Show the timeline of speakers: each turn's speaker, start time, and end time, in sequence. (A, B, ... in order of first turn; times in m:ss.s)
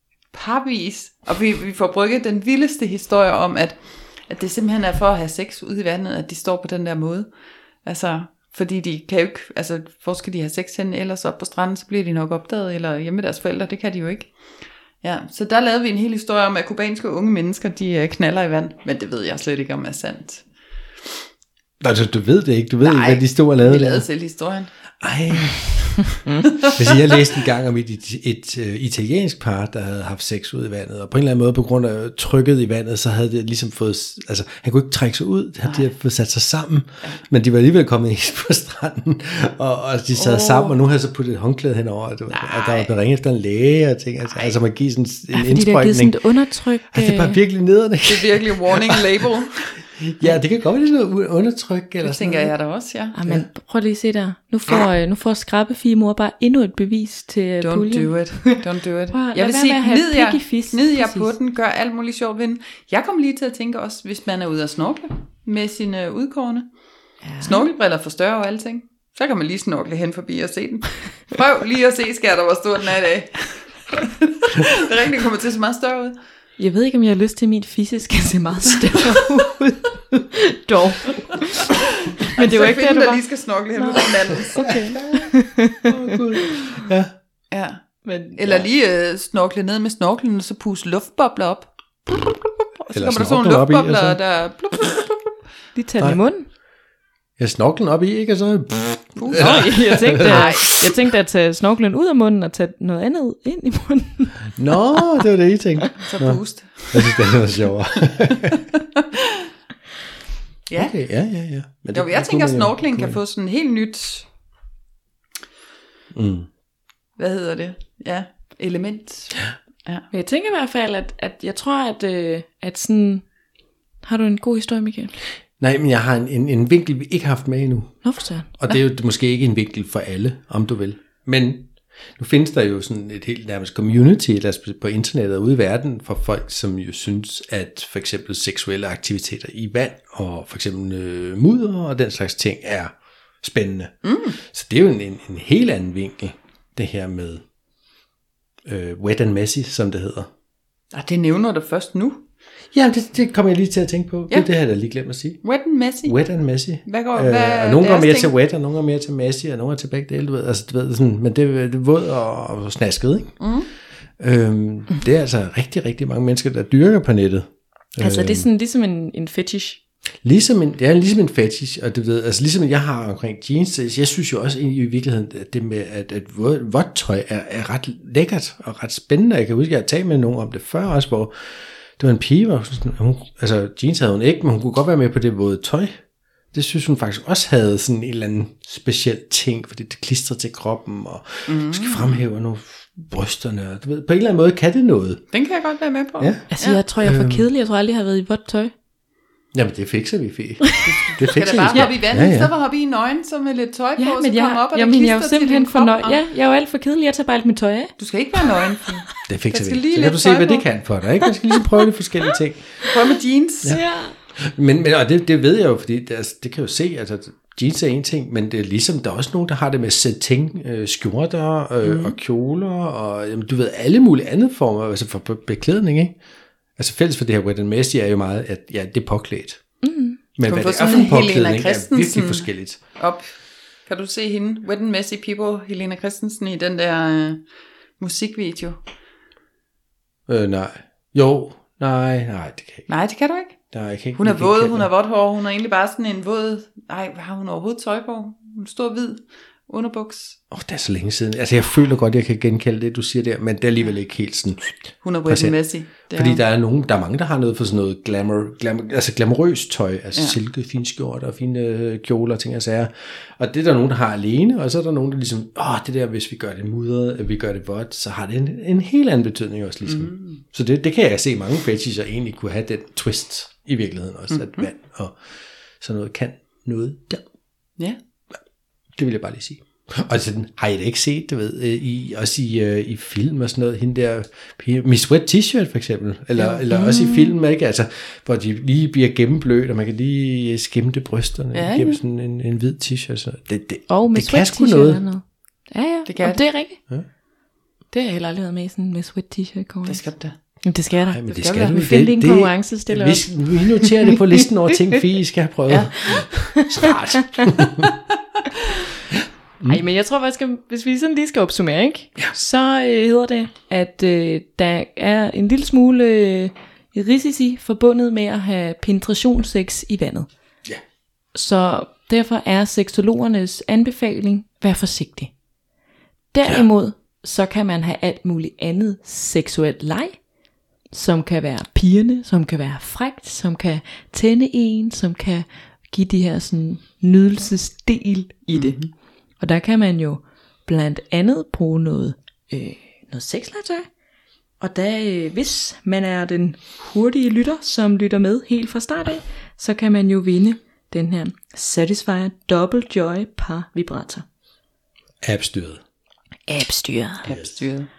0:00.3-0:20.6 A
0:21.8-0:24.0 B
0:22.8-0:25.0 A
0:25.0-0:49.0 B
0:26.6-0:27.0 A
0:35.6-0:35.9 A
0:40.1-0:40.7 A
0:42.3-0:42.9 A
0:44.3-0:44.6 A
0:45.3-0:47.4 C
0:48.0-0:49.9 A
0:49.9-0:52.6 B
0:52.0-0:53.1 A
0:53.1-1:01.3 C
0:57.6-1:16.2 A
1:07.2-1:07.7 C
1:16.6-1:21.7 C
1:22.3-1:25.8 C
1:22.4-1:25.1 A
1:24.6-1:27.1 B
1:27.5-1:35.4 A
1:28.0-1:28.4 C
1:32.9-1:34.2 B
1:35.7-1:36.5 C
1:37.4-1:40.6 B
1:39.2-1:40.9 A
1:39.4-1:44.7 C
1:44.6-1:48.6 B
1:46.0-1:47.2 A
1:50.7-1:51.0 A
1:50.8-1:53.2 B
1:51.9-1:54.3 A
1:56.1-1:56.5 B
1:57.2-2:00.0 A
2:00.1-2:03.4 C
2:04.0-2:05.1 C
2:05.6-2:27.4 B
2:08.0-2:08.5 C
2:24.0-2:24.4 A
2:28.6-2:30.3 B
2:30.9-2:32.2 A
2:32.7-2:35.4 B
2:35.4-2:36.2 A
2:36.0-2:43.6 B
2:36.8-2:38.3 A
2:43.4-2:43.7 A
2:44.2-2:48.5 B
2:48.0-2:49.8 C
2:50.2-3:15.3 B
3:11.5-3:12.2 A
3:15.3-3:16.8 A
3:16.2-3:17.5 B
3:16.5-3:18.7 C
3:19.5-3:22.5 B
3:20.8-3:26.2 A
3:21.3-3:21.9 C
3:24.0-3:27.9 C
3:28.0-3:30.8 A
3:29.2-3:32.9 B
3:32.9-3:33.8 A
3:33.6-3:46.2 B
3:33.7-3:34.2 C
3:41.8-3:42.2 A
3:46.8-3:49.8 B
3:49.8-3:50.2 C
3:50.3-3:52.8 B
3:50.4-3:57.4 A
3:58.0-3:58.8 A
4:00.3-4:02.9 B
4:02.9-4:10.4 A
4:03.7-4:04.9 B
4:10.5-4:37.2 B
4:15.0-4:16.4 A
4:29.9-4:30.4 A
4:34.3-4:34.7 A
4:38.9-4:55.1 B
4:46.4-4:46.6 A
4:46.7-4:47.3 C
4:51.5-4:52.0 A
4:53.9-4:56.8 C
4:56.0-4:56.5 A
4:57.9-5:04.2 C
4:59.9-5:00.4 A
5:01.0-5:07.9 B
5:01.3-5:01.8 A
5:05.7-5:06.5 A
5:09.6-5:20.3 C
5:21.3-5:25.4 C
5:26.3-5:30.3 C
5:30.9-5:44.0 C
5:38.5-5:38.9 A
5:44.6-5:54.2 C
5:55.2-5:55.8 B
5:56.5-5:57.3 C
5:57.2-5:57.9 A
5:57.3-5:57.5 B